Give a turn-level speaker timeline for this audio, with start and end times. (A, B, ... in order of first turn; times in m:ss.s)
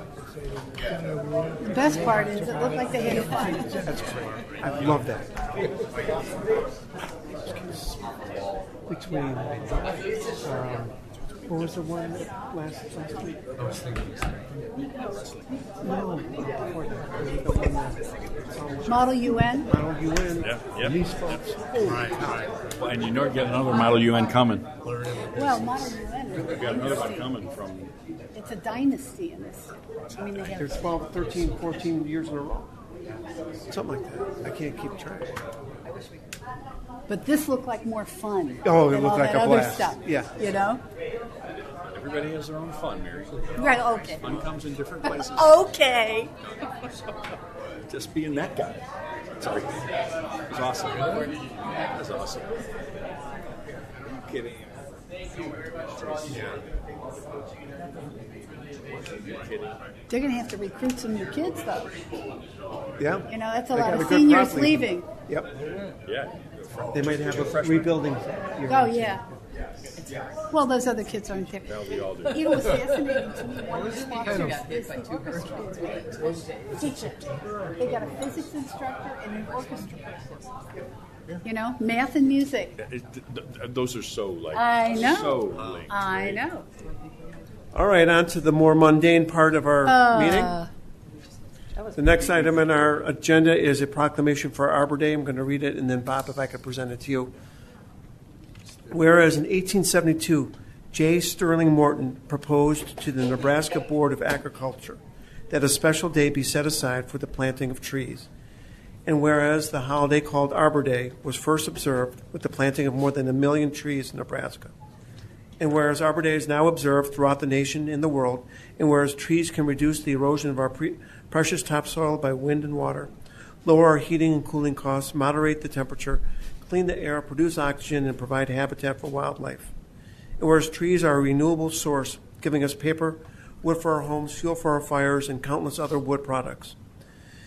0:01.6-0:03.9 A
0:03.8-0:05.3 B
0:07.5-0:07.8 B
0:08.9-0:10.9 B
0:11.5-0:13.4 B
0:15.8-0:22.4 B
0:18.9-0:19.7 A
0:20.4-0:21.4 C
0:22.8-0:24.7 C
0:25.2-0:27.3 A
0:26.4-0:27.9 C
0:28.3-0:30.9 A
0:30.1-0:30.5 C
0:30.6-0:32.7 B
0:33.7-0:35.4 B
0:37.1-0:40.8 A
0:38.6-0:40.4 B
0:41.9-0:45.7 C
0:43.6-0:44.3 A
0:45.0-0:46.3 A
0:47.9-0:48.8 C
0:49.4-0:49.8 C
0:50.5-0:52.5 C
0:56.0-0:56.6 C
0:59.3-0:59.7 C
1:00.1-1:01.9 A
1:03.0-1:05.5 B
1:03.3-1:05.1 A
1:06.0-1:07.9 C
1:06.9-1:09.3 B
1:08.7-1:09.2 A
1:10.5-1:20.6 A
1:11.7-1:12.4 C
1:21.4-1:22.8 A
1:22.8-1:26.3 C
1:24.5-1:26.7 A
1:27.7-1:30.6 B
1:29.8-1:30.7 A
1:31.9-1:37.3 B
1:38.9-1:48.3 B
1:49.0-1:54.7 B
1:55.6-2:03.1 B
2:03.6-2:09.7 B
2:10.4-2:16.8 B